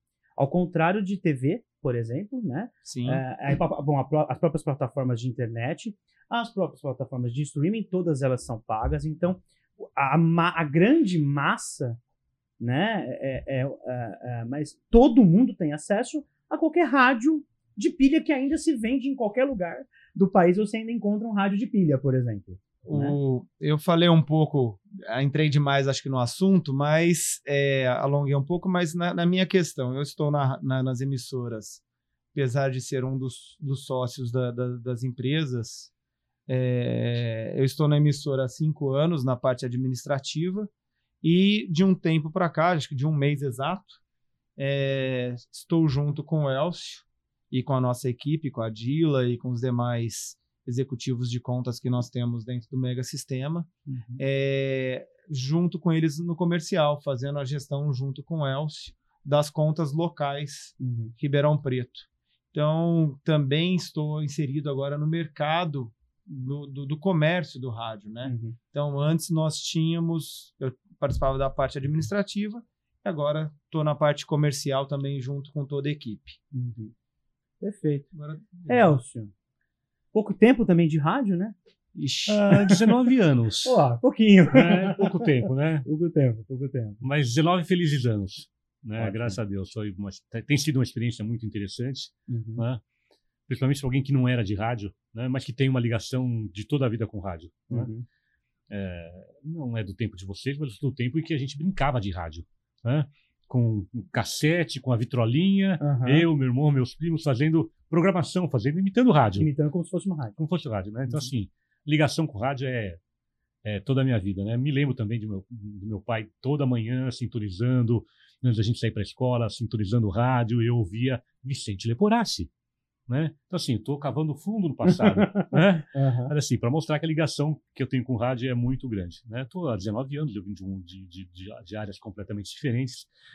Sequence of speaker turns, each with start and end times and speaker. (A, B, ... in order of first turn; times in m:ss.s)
0:00.4-0:12.0 A
0:02.8-0:03.2 B
0:12.6-0:23.2 A
0:22.8-0:31.8 B
0:32.3-0:35.9 B
0:36.5-0:40.7 B
0:41.2-0:44.0 B
0:44.6-1:16.4 B
0:53.9-0:54.2 A
1:00.8-1:01.1 A
1:08.2-1:08.6 A
1:16.5-1:16.9 A
1:17.6-1:18.1 A
1:18.1-1:19.0 B
1:18.7-1:19.3 A
1:20.1-1:21.5 A
1:21.9-1:22.5 B
1:22.3-1:23.8 C
1:23.6-1:27.0 A
1:24.5-1:25.9 C
1:27.0-1:32.8 C
1:29.0-1:29.4 A
1:32.3-1:32.6 A
1:33.5-1:37.9 C
1:37.7-1:38.0 A
1:38.7-1:49.5 C
1:45.8-1:46.3 A
1:49.4-1:50.4 A
1:50.4-1:53.0 C
1:53.6-2:02.5 C
2:03.1-2:13.1 C
2:04.8-2:06.3 A